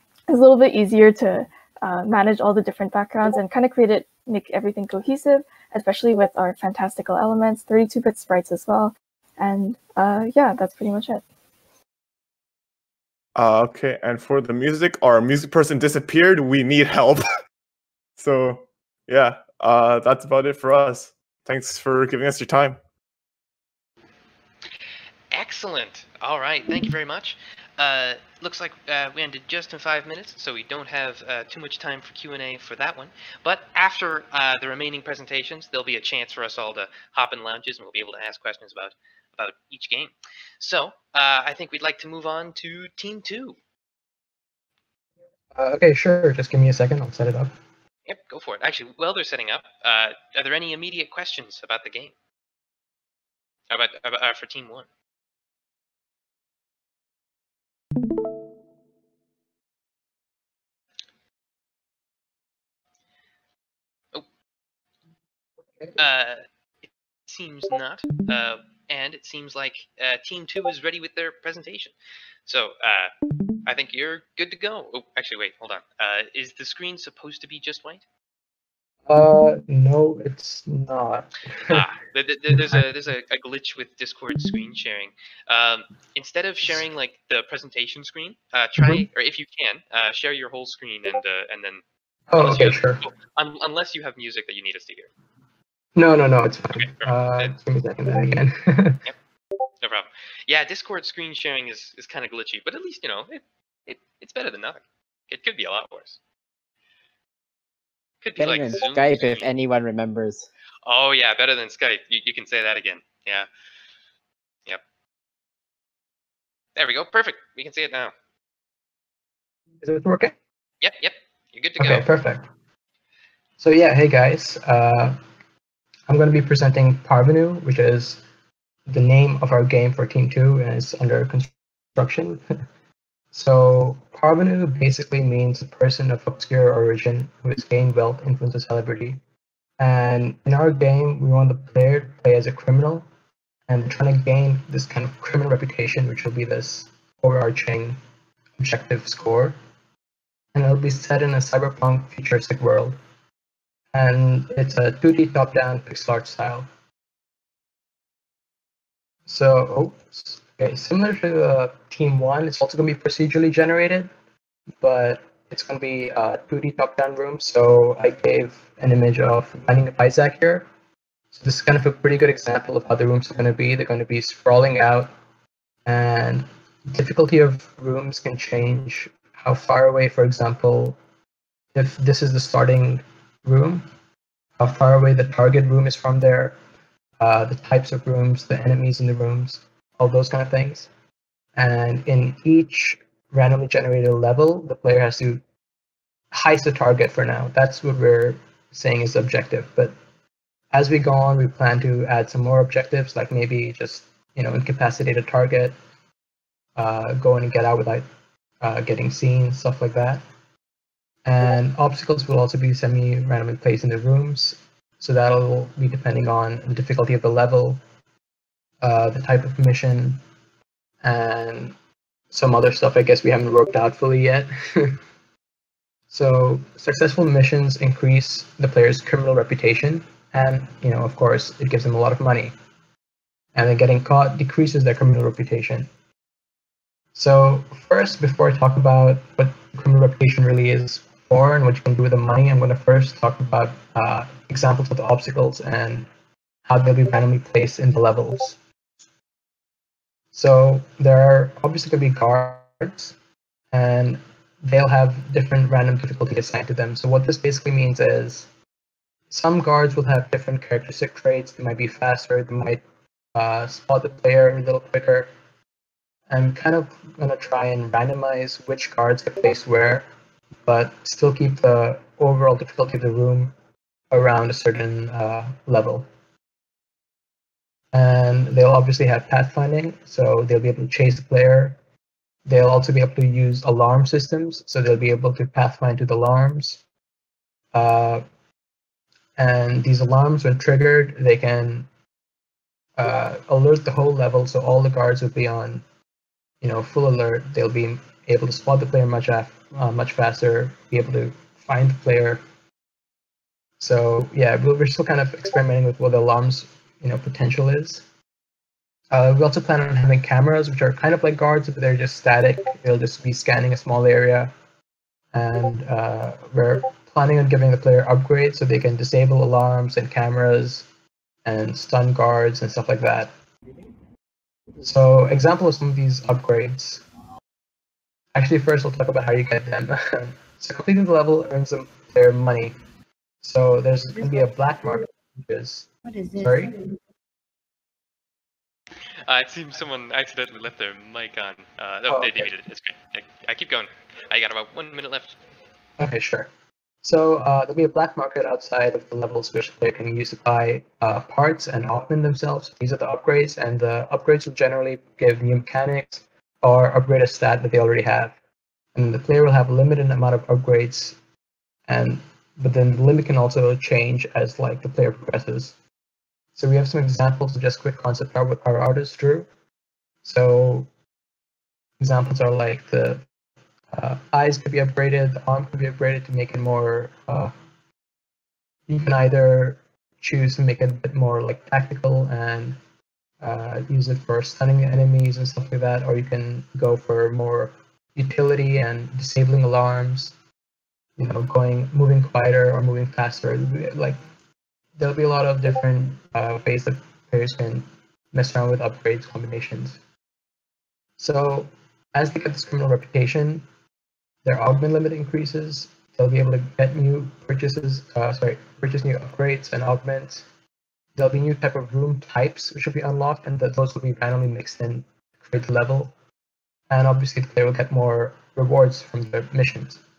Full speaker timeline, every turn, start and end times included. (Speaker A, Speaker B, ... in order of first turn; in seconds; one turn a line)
Speaker A: 0.3-11.2
Speaker B: 13.3-17.4
Speaker B: 18.2-22.8
Speaker C: 25.3-43.6
Speaker D: 45.5-47.5
Speaker C: 48.1-52.1
Speaker C: 53.7-54.9
Speaker C: 66.0-71.9
Speaker C: 72.5-73.1
Speaker C: 73.7-78.0
Speaker D: 79.1-81.8
Speaker C: 81.7-91.8
Speaker D: 82.5-82.8
Speaker D: 88.8-89.1
Speaker D: 92.3-93.0
Speaker C: 92.4-95.1
Speaker D: 96.0-99.0
Speaker C: 96.8-97.5
Speaker C: 99.8-106.2
Speaker C: 108.2-109.5
Speaker E: 108.4-110.5
Speaker C: 110.8-113.5
Speaker C: 116.8-118.1
Speaker D: 119.8-120.3
Speaker C: 120.8-122.1
Speaker D: 121.8-122.5
Speaker D: 123.6-125.2
Speaker D: 126.1-128.2
Speaker D: 128.9-132.4
Speaker D: 133.3-139.2
Speaker D: 139.8-143.1
Speaker D: 143.7-148.0
Speaker D: 148.6-149.6
Speaker D: 150.5-152.9
Speaker D: 153.9-156.7
Speaker D: 159.3-164.1
Speaker D: 164.8-170.7
Speaker D: 171.3-175.1
Speaker D: 175.8-181.0
Speaker D: 181.7-183.8
Speaker D: 184.6-186.6
Speaker D: 187.2-190.9
Speaker D: 191.6-195.4
Speaker D: 196.3-199.9
Speaker D: 200.7-205.8
Speaker D: 206.8-208.1
Speaker D: 208.6-210.2
Speaker D: 211.2-217.8
Speaker D: 218.8-220.2
Speaker D: 221.0-221.7
Speaker D: 222.3-225.0
Speaker D: 226.1-232.5
Speaker D: 233.5-235.9
Speaker D: 237.1-246.1
Speaker D: 246.7-248.6
Speaker D: 250.3-253.1
Speaker D: 253.7-258.5
Speaker D: 259.3-262.8
Speaker D: 263.3-265.3
Speaker D: 266.3-270.1
Speaker D: 270.6-273.5
Speaker D: 274.1-276.1
Speaker D: 277.9-281.8
Speaker D: 282.4-286.8
Speaker D: 287.7-288.2
Speaker D: 289.4-291.9
Speaker D: 293.0-295.8
Speaker D: 296.6-302.4
Speaker D: 303.8-308.0
Speaker D: 309.1-314.5
Speaker D: 315.3-320.9
Speaker D: 321.4-323.3
Speaker D: 324.8-327.0
Speaker D: 328.3-332.7
Speaker D: 333.4-336.8
Speaker C: 339.2-345.4
Speaker D: 342.1-342.5
Speaker D: 346.0-346.5
Speaker D: 347.0-358.3
Speaker D: 358.9-361.2
Speaker D: 361.9-365.7
Speaker D: 366.5-369.5
Speaker D: 370.2-370.9
Speaker D: 372.0-373.2
Speaker D: 373.9-377.5
Speaker D: 378.9-382.8
Speaker D: 383.4-390.3
Speaker D: 391.2-394.2
Speaker D: 395.0-400.0
Speaker D: 401.2-403.6
Speaker D: 404.4-410.4
Speaker D: 411.1-416.1
Speaker D: 416.9-420.0